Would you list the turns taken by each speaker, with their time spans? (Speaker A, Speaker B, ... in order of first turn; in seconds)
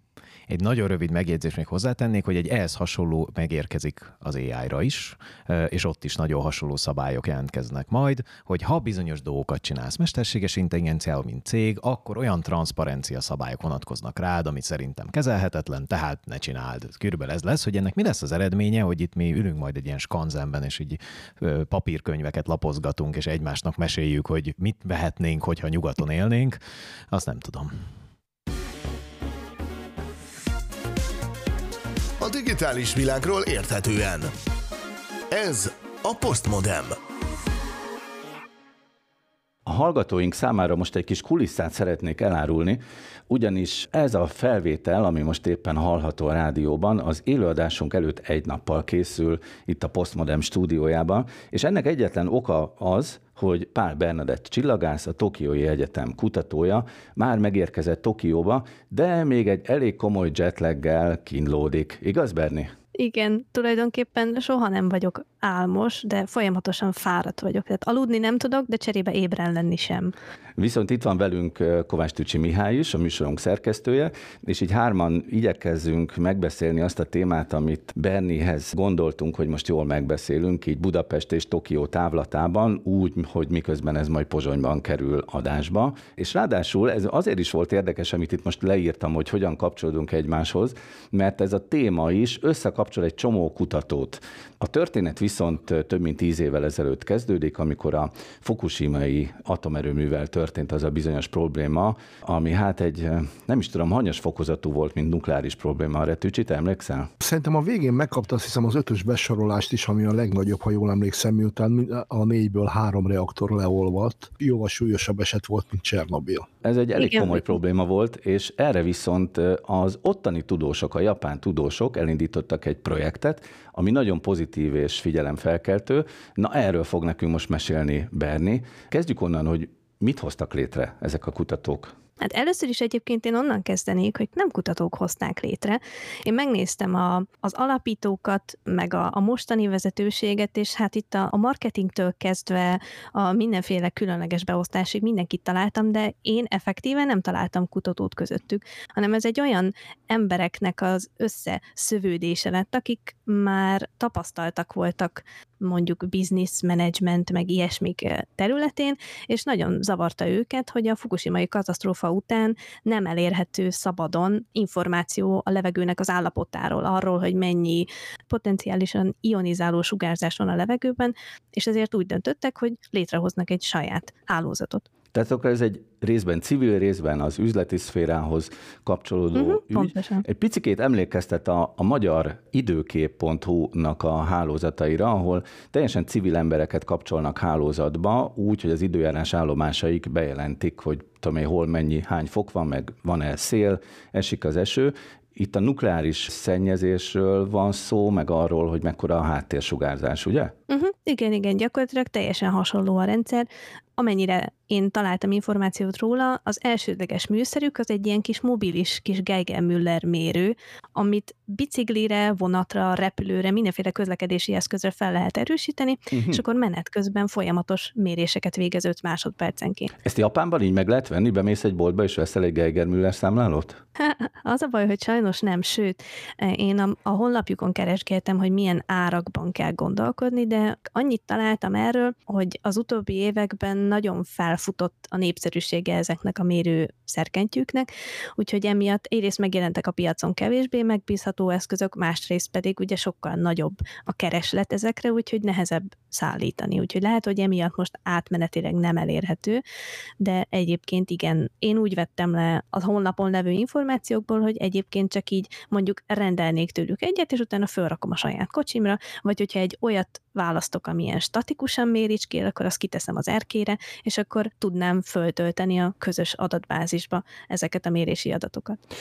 Speaker A: 0.5-27.7
Speaker B: 32.2-34.3, 35.3-37.0
Speaker C: 39.6-62.7, 70.6-107.1, 116.6-131.9, 175.1-200.5, 216.1-216.4, 220.0-223.8
Speaker D: 63.0-70.1, 117.0-117.4, 132.2-174.8, 179.3-180.2, 200.7-219.9, 224.0-249.6, 250.2-268.8
Speaker E: 107.2-116.5